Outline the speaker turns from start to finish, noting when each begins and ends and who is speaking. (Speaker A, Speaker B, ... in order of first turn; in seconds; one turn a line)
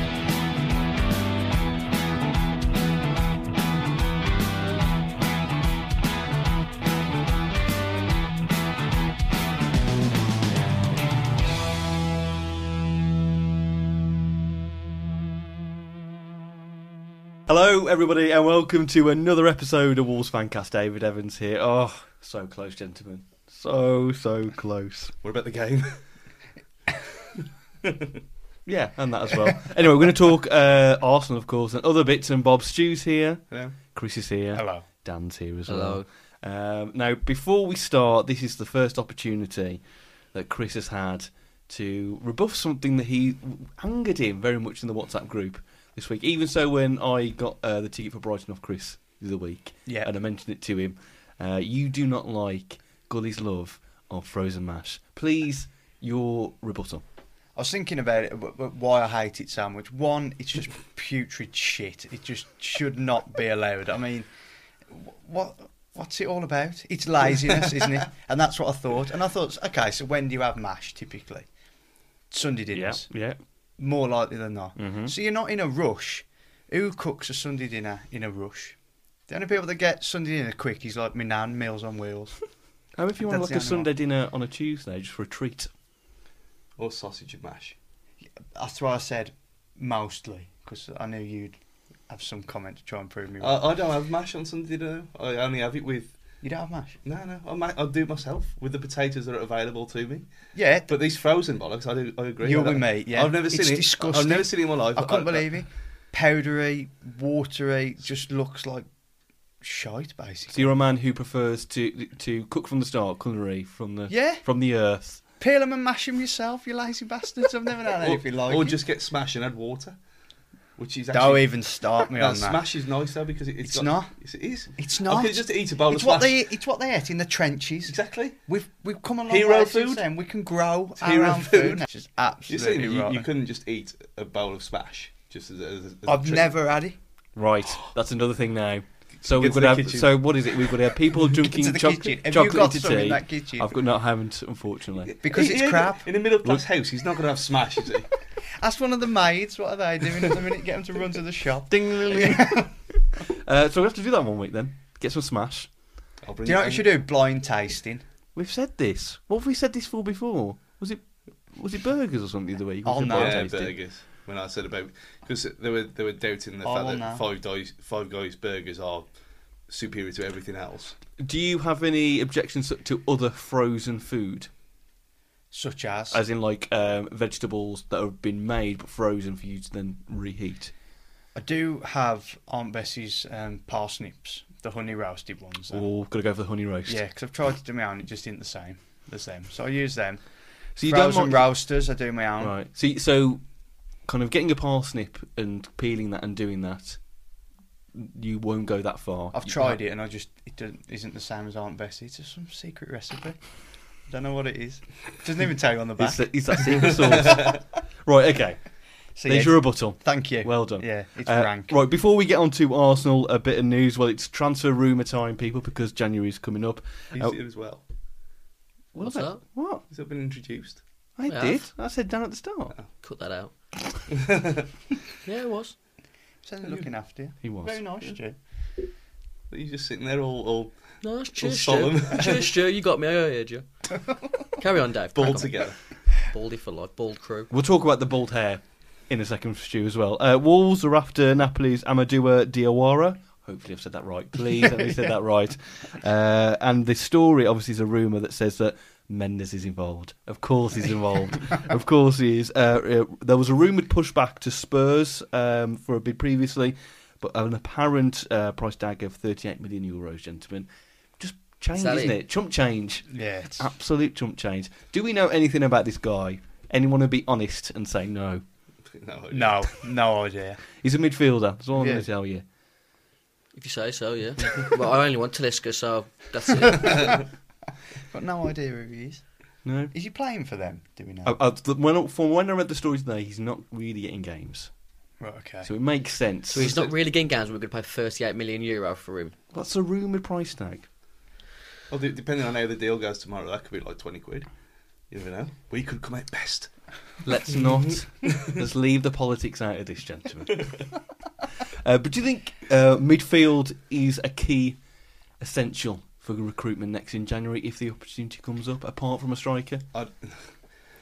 Speaker A: 17.5-25.1
Speaker B: 25.2-26.0
Speaker B: 27.8-28.1
Speaker A: 28.6-57.0
Speaker C: 34.5-34.9
Speaker D: 35.7-36.1
Speaker C: 49.9-50.1
Speaker C: 57.5-64.3
Speaker C: 64.9-71.5
Speaker C: 72.3-73.1
Speaker A: 72.7-73.4
Speaker C: 73.8-78.8
Speaker A: 74.8-75.1
Speaker C: 79.3-82.4
Speaker A: 83.0-85.7
Speaker C: 83.2-83.9
Speaker B: 86.8-87.8
Speaker C: 88.5-91.6
Speaker C: 92.1-93.5
Speaker B: 93.4-96.2
Speaker C: 96.4-97.0
Speaker B: 97.0-100.3
Speaker C: 100.5-100.9
Speaker B: 100.9-105.6
Speaker C: 102.4-108.9
Speaker C: 109.6-110.7
Speaker A: 110.5-115.2
Speaker C: 114.1-114.4
Speaker C: 115.4-118.8
Speaker B: 118.0-120.0
Speaker B: 120.8-121.5
Speaker C: 121.1-122.6
Speaker B: 122.1-126.4
Speaker C: 123.6-124.1
Speaker C: 124.7-133.3
Speaker B: 127.9-128.4
Speaker B: 129.3-130.1
Speaker B: 131.0-131.8
Speaker B: 132.5-136.5
Speaker C: 136.1-137.0
Speaker A: 137.3-145.1
Speaker B: 139.2-140.2
Speaker C: 141.4-143.8
Speaker C: 145.2-146.1
Speaker B: 145.2-148.1
Speaker C: 148.6-152.7
Speaker A: 151.7-155.7
Speaker B: 156.2-156.9
Speaker C: 156.4-158.0
Speaker A: 158.3-163.8
Speaker C: 162.8-163.5
Speaker B: 163.1-169.1
Speaker C: 166.6-167.2
Speaker B: 169.7-171.0
Speaker A: 171.2-174.5
Speaker C: 175.5-176.2
Speaker A: 176.1-180.7
Speaker C: 181.3-185.9
Speaker A: 185.7-187.0
Speaker C: 186.8-190.2
Speaker A: 190.8-191.5
Speaker C: 190.8-192.6
Speaker A: 192.4-193.4
Speaker A: 194.0-197.0
Speaker A: 197.9-199.8
Speaker C: 199.3-203.4
Speaker C: 204.0-207.0
Speaker A: 206.0-208.6
Speaker C: 209.2-211.8
Speaker A: 209.2-217.3
Speaker B: 217.2-217.8
Speaker A: 218.9-219.8
Speaker D: 219.0-219.4
Speaker B: 219.9-220.8
Speaker A: 221.2-222.7
Speaker D: 221.3-221.6
Speaker D: 223.0-223.5
Speaker B: 224.1-224.7
Speaker D: 225.2-225.8
Speaker C: 226.4-228.4
Speaker A: 227.4-227.8
Speaker B: 229.5-232.4
Speaker D: 231.0-237.5
Speaker B: 235.1-235.8
Speaker A: 237.5-260.7
Speaker A: 261.2-268.4
Speaker D: 261.8-262.1
Speaker C: 263.1-263.7
Speaker B: 268.9-269.8
Speaker C: 269.3-270.6
Speaker A: 270.8-272.4
Speaker C: 271.8-272.1
Speaker D: 273.5-277.2
Speaker C: 276.8-277.2
Speaker C: 278.1-279.2
Speaker A: 279.6-279.9
Speaker C: 279.9-281.3
Speaker A: 281.2-284.7
Speaker C: 285.2-285.7
Speaker A: 285.6-286.7
Speaker D: 286.5-289.4
Speaker B: 286.6-286.9
Speaker A: 289.5-290.9
Speaker B: 291.9-294.5
Speaker B: 295.1-296.7
Speaker A: 297.2-300.8
Speaker B: 298.2-298.5
Speaker A: 301.7-304.8
Speaker A: 305.4-309.8
Speaker B: 309.9-310.3